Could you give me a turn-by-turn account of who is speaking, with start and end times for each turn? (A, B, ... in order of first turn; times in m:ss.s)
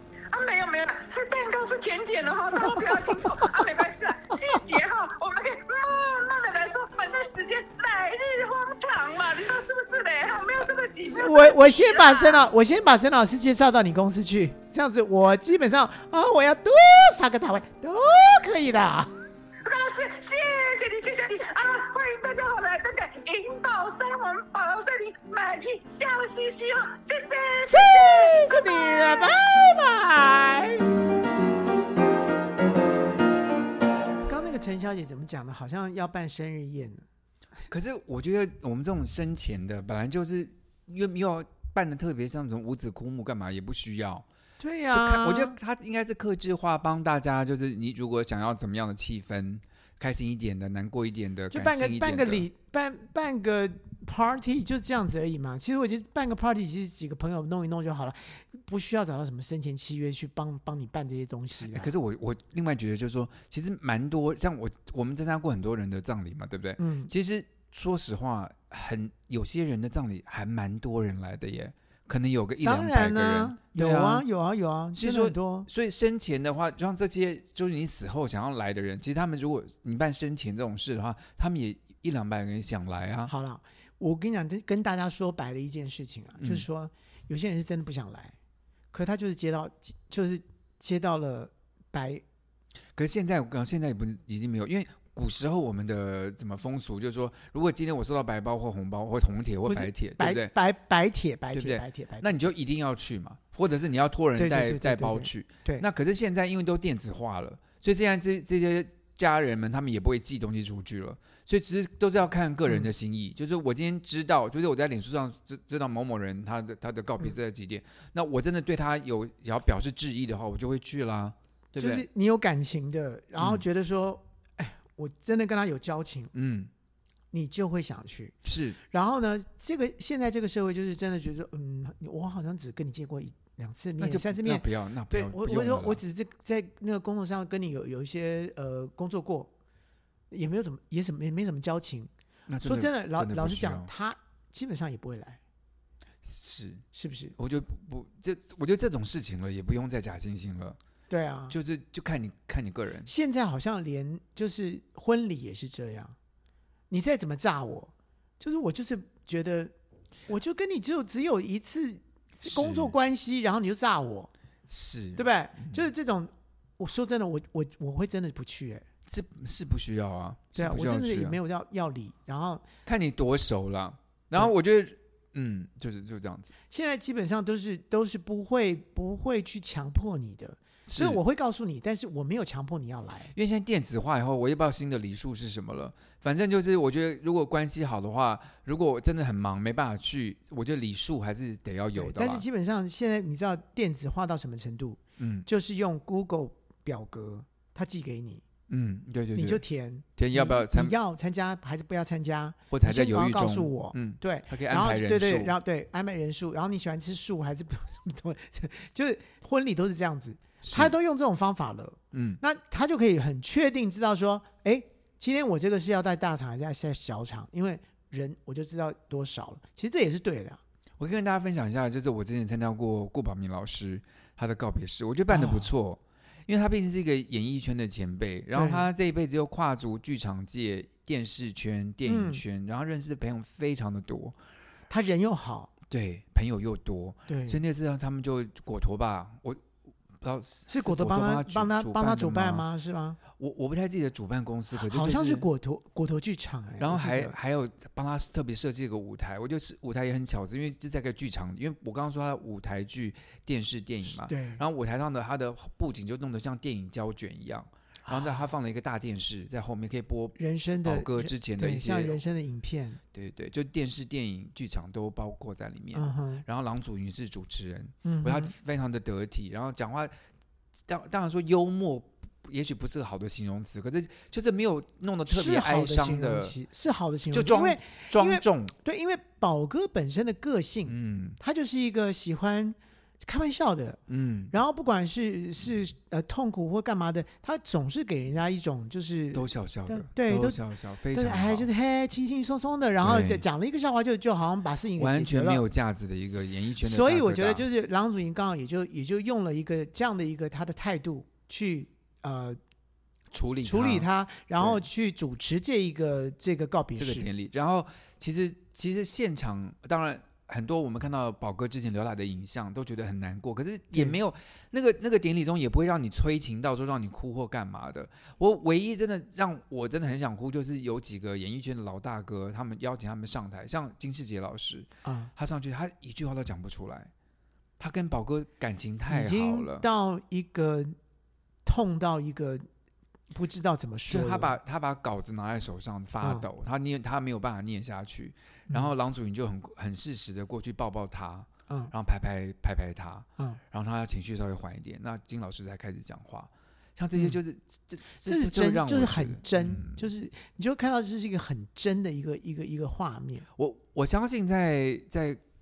0:00.3-0:12.4 A
0:02.7-0:03.2 B
0:11.1-0:19.1 B
0:19.6-0:29.4 A
0:27.7-0:31.0 B
0:34.2-0:37.0 B
0:37.7-0:44.2 C
0:44.6-0:45.6 B
0:44.9-0:52.5 C
0:51.5-1:01.9 B
1:01.7-1:14.2 C
1:06.8-1:07.1 B
1:12.6-1:15.7 B
1:14.9-1:23.3 C
1:23.3-1:28.4 B
1:26.4-1:26.6 C
1:28.9-1:32.2 B
1:33.0-1:40.5 C
1:39.7-1:42.4 B
1:41.5-2:02.1 C
1:44.4-1:45.9 B
2:01.8-2:06.3 B
2:03.4-2:03.6 C
2:06.3-2:06.7 C
2:07.3-2:08.4 B
2:08.4-2:08.8 C
2:08.9-2:19.5 B
2:14.0-2:16.0 C
2:20.3-2:22.1 B
2:22.5-2:23.9 C
2:22.6-2:25.4 B
2:26.2-2:26.8 C
2:26.9-2:27.4 B
2:27.4-2:30.8 C
2:31.1-2:31.6 B
2:31.5-2:33.1 C
2:33.1-2:36.2 B
2:36.9-2:39.7 B
2:40.3-2:44.3 B
2:42.4-2:43.0 C
2:44.7-2:45.9 C
2:45.2-2:48.8 B
2:49.1-2:51.4 C
2:50.6-2:52.6 B
2:52.8-2:56.5 C
2:56.7-3:03.3 B
3:00.9-3:01.2 C
3:03.4-3:12.4 C
3:12.0-3:18.4 B
3:15.2-3:15.5 C
3:18.7-3:19.6 C
3:19.4-3:40.6 B
3:20.2-3:21.0 C
3:22.7-3:25.6 C
3:30.6-3:31.0 C
3:32.1-3:32.4 C
3:41.0-3:54.4 C
3:45.3-3:45.7 B
3:48.5-3:48.9 B
3:52.1-3:52.4 B
3:54.9-3:55.7 B
3:55.9-3:59.6 C
3:57.3-3:57.6 B
4:00.2-4:02.6 C
4:00.7-4:03.2 B
4:03.4-4:05.5 C
4:04.8-4:07.3 B
4:06.8-4:22.2 C
4:14.1-4:14.6 B
4:18.1-4:18.5 B
4:20.4-4:23.0 B
4:23.1-4:30.1 C
4:25.9-4:26.4 B
4:28.0-4:28.5 B
4:30.9-4:36.6 C
4:35.3-4:50.6 B
4:37.3-4:38.7 C
4:40.9-4:41.4 C
4:44.1-4:44.5 C
4:49.3-4:51.7 C
4:51.1-4:55.6 B
4:53.0-4:53.4 C
4:55.0-4:57.6 C
4:56.8-5:02.6 B
5:03.3-5:04.1 C
5:03.6-5:07.3 B
5:04.6-5:04.8 C
5:07.0-5:27.1 C
5:25.0-5:25.3 B
5:27.8-5:29.9 C
5:29.1-5:31.0 B
5:31.7-5:32.7 B
5:33.3-5:34.6 B
5:34.1-5:50.1 C
5:36.2-5:36.5 B
5:48.2-5:53.5 B
5:53.6-5:55.4 C